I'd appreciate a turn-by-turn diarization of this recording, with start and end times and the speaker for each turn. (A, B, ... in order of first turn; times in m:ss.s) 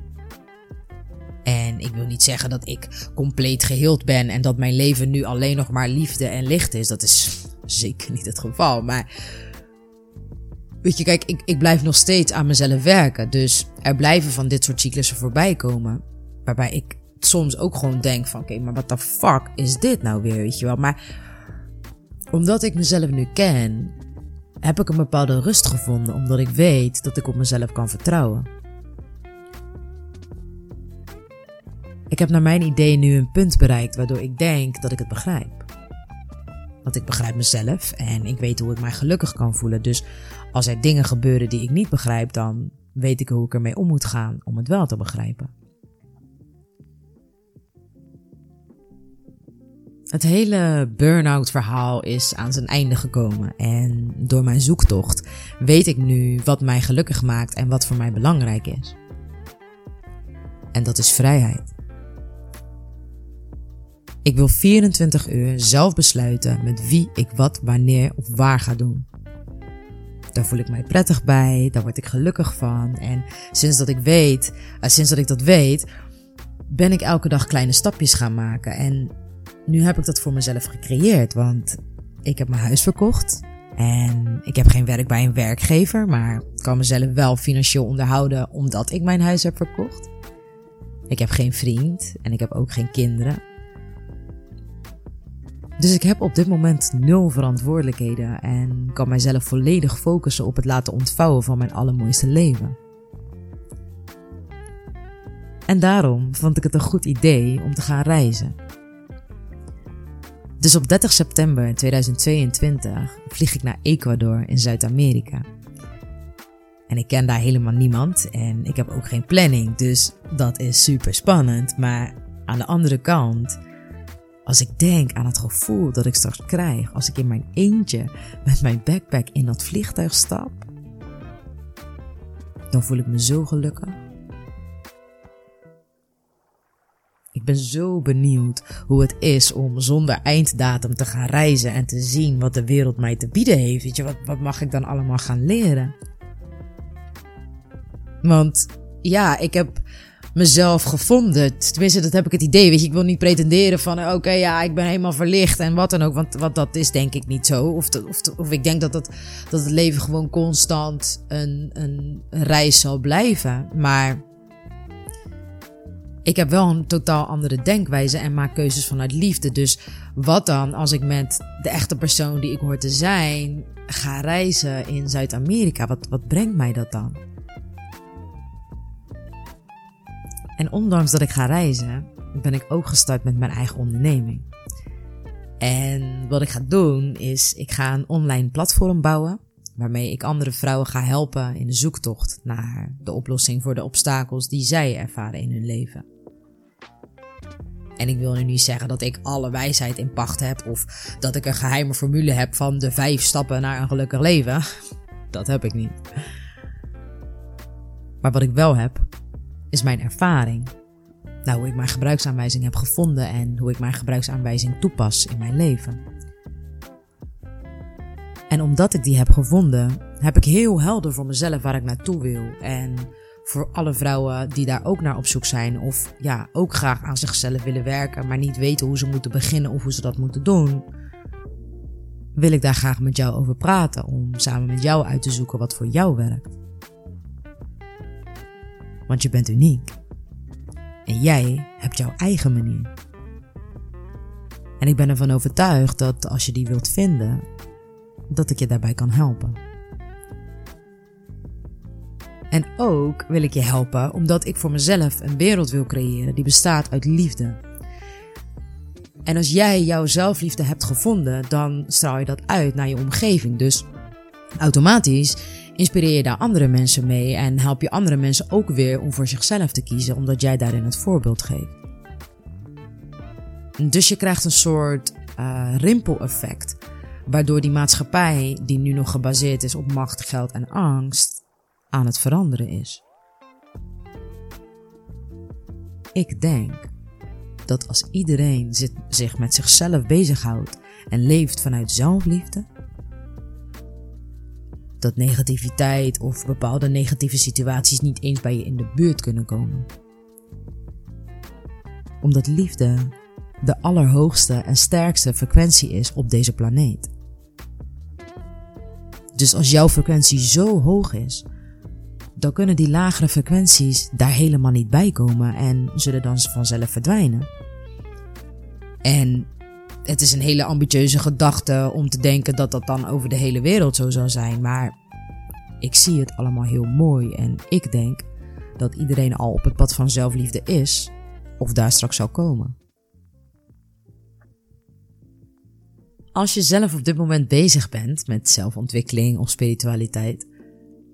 0:01.4-0:09.1 A
0:10.8-0:21.0 A
0:22.3-0:23.9 A
0:24.6-0:28.5 A
0:32.1-0:35.7 A
0:36.8-0:40.0 A
0:40.5-0:45.5 A
0:50.1-0:59.0 A
1:00.7-1:01.7 A
1:04.2-1:09.1 A
1:10.3-1:15.9 A
1:16.7-1:19.1 A
1:19.7-1:30.1 A
1:31.1-1:33.4 A
1:35.8-1:42.8 A
1:45.7-1:48.6 A
1:50.6-1:55.5 A
1:56.9-2:03.6 A
2:04.5-2:10.7 A
2:12.7-2:14.0 A
2:17.3-2:26.0 A
2:28.2-2:29.8 A
2:30.4-2:44.2 A
2:46.2-2:57.2 A
3:00.6-3:04.5 A
3:05.6-3:16.0 A
3:18.0-3:24.6 A
3:25.3-3:26.0 A
3:28.2-3:29.1 A
3:29.7-3:30.7 A
3:31.4-3:36.0 A
3:38.5-3:50.9 A
3:52.4-3:56.5 A
3:59.1-4:00.0 A
4:01.1-4:02.9 A
4:04.8-4:07.4 A
4:08.3-4:09.6 A
4:12.5-4:17.6 A
4:19.2-4:23.9 A
4:24.6-4:31.8 A
4:33.8-4:43.0 A
4:46.1-4:46.9 A
4:47.6-4:52.7 A
4:55.0-4:59.9 A
5:02.2-5:07.1 A
5:09.4-5:11.5 A
5:12.4-5:17.5 A
5:19.0-5:19.5 A
5:20.0-5:25.0 A
5:25.8-5:28.3 A
5:28.8-5:32.8 A
5:36.3-5:40.5 A